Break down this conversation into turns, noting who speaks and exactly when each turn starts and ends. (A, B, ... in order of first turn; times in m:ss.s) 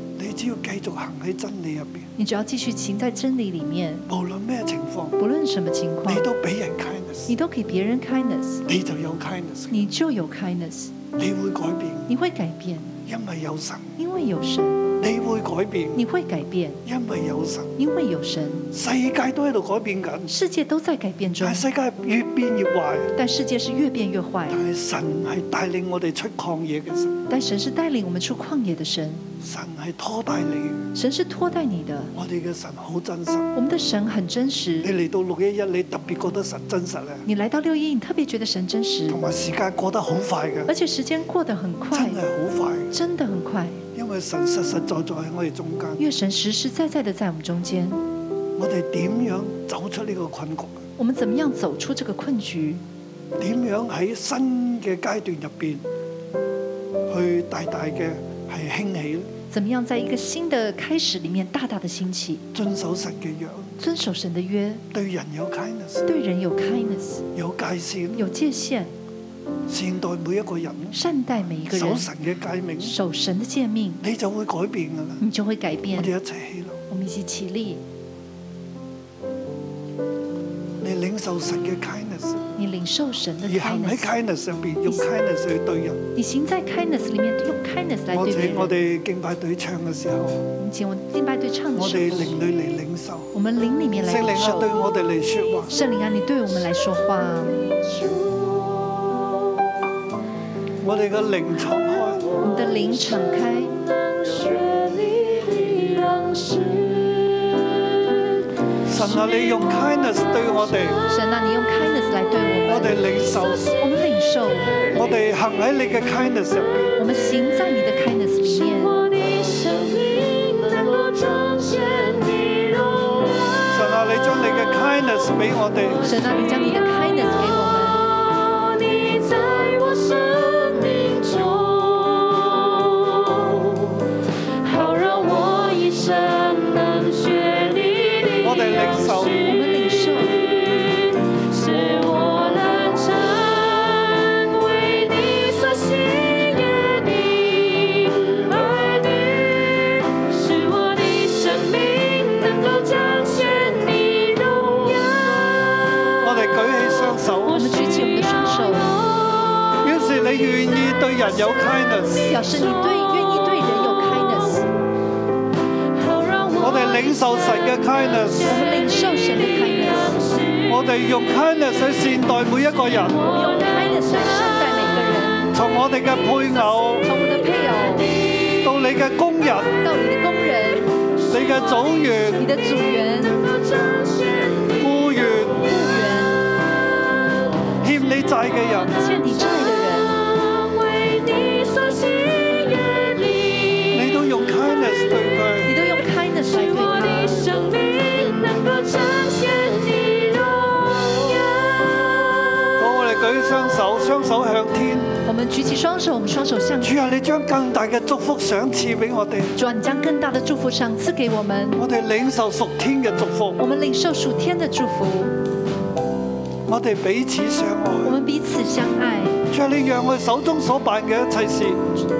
0:00.2-0:02.1 A
0:02.2-0:04.0 B
0:04.1-0:05.2 A
0:05.2-0:06.3 B
0:06.0-0:07.3 A
0:07.3-0:08.6 B
0:08.6-0:09.9 A
0:09.7-0:10.9 B
0:11.2-0:12.1 A
0:12.1-0:13.0 B
0:13.0-0:13.9 A
0:14.0-0:14.9 B
0:15.0-0:16.0 A
0:15.9-0:16.8 B
0:16.8-0:17.7 A
0:17.8-0:18.7 B
0:18.7-0:20.3 A
0:20.3-0:21.6 B
0:21.4-0:23.1 A
0:23.1-0:24.6 B
0:24.5-0:27.2 A
0:27.3-0:29.2 B
0:29.4-0:30.9 A
0:30.9-0:32.1 B
0:32.1-0:33.5 A
0:33.5-0:34.9 B
0:34.8-0:37.2 A
0:37.2-0:39.2 B
0:39.1-0:40.7 A
0:40.7-0:42.2 B
0:41.9-0:42.9 A
0:42.9-0:43.8 B
0:43.9-0:46.0 A
0:46.0-0:48.0 B
0:48.6-0:50.8 A
0:51.0-0:52.8 B
0:53.4-0:55.8 A
0:57.1-0:59.3 A
0:59.5-1:02.4 B
1:02.5-1:03.7 A
1:03.8-1:04.8 B
1:04.9-1:06.0 A
1:06.0-1:07.2 B
1:07.3-1:08.3 A
1:08.2-1:08.9 B
1:09.7-1:11.0 A
1:10.9-1:12.1 B
1:11.7-1:13.0 A
1:12.8-1:14.0 B
1:14.0-1:15.2 A
1:15.2-1:16.1 B
1:15.9-1:16.8 A
1:16.9-1:17.8 B
1:20.8-1:22.5 A
1:22.6-1:24.1 B
1:23.4-1:26.0 A
1:26.1-1:28.8 B
1:28.1-1:30.4 A
1:30.5-1:32.5 B
1:31.7-1:33.3 A
1:33.3-1:34.7 B
1:34.0-1:35.8 A
1:35.7-1:37.6 B
1:38.7-1:39.0 C
1:40.8-1:42.3 A
1:42.4-1:43.8 B
1:44.1-1:47.6 C
1:48.8-1:51.0 A
1:51.1-1:53.0 B
1:52.6-1:53.7 A
1:53.8-1:54.8 B
1:54.9-1:57.0 A
1:57.0-1:59.0 B
1:59.1-2:03.1 C
2:03.6-2:06.0 A
2:06.0-2:08.1 B
2:08.3-2:13.8 C
2:14.6-2:18.7 C
2:18.4-2:19.4 A
2:19.4-2:20.5 B
2:21.3-2:35.3 C
2:36.2-2:37.9 A
2:37.5-2:39.0 B
2:39.8-2:42.5 A
2:42.3-2:44.7 B
2:46.1-2:46.6 C
2:46.6-2:48.6 A
2:48.4-2:50.2 B
2:50.7-2:53.2 A
2:53.2-2:55.5 B
2:55.5-2:57.1 A
2:57.0-2:58.2 B
2:58.6-2:59.8 A
2:59.8-3:00.9 B
3:01.3-3:02.4 A
3:02.4-3:03.4 B
3:04.8-3:05.6 A
3:05.6-3:06.4 B
3:07.8-3:09.1 A
3:08.9-3:10.2 B
3:10.4-3:13.9 C
3:13.9-3:15.8 A
3:15.6-3:17.4 B
3:17.0-3:22.0 C
3:22.8-3:25.1 A
3:25.2-3:27.0 B
3:26.8-3:29.5 A
3:29.6-3:31.8 B
3:31.8-3:33.6 A
3:33.6-3:35.3 B
3:36.7-3:38.2 A
3:38.0-3:39.4 B
3:39.5-3:41.8 A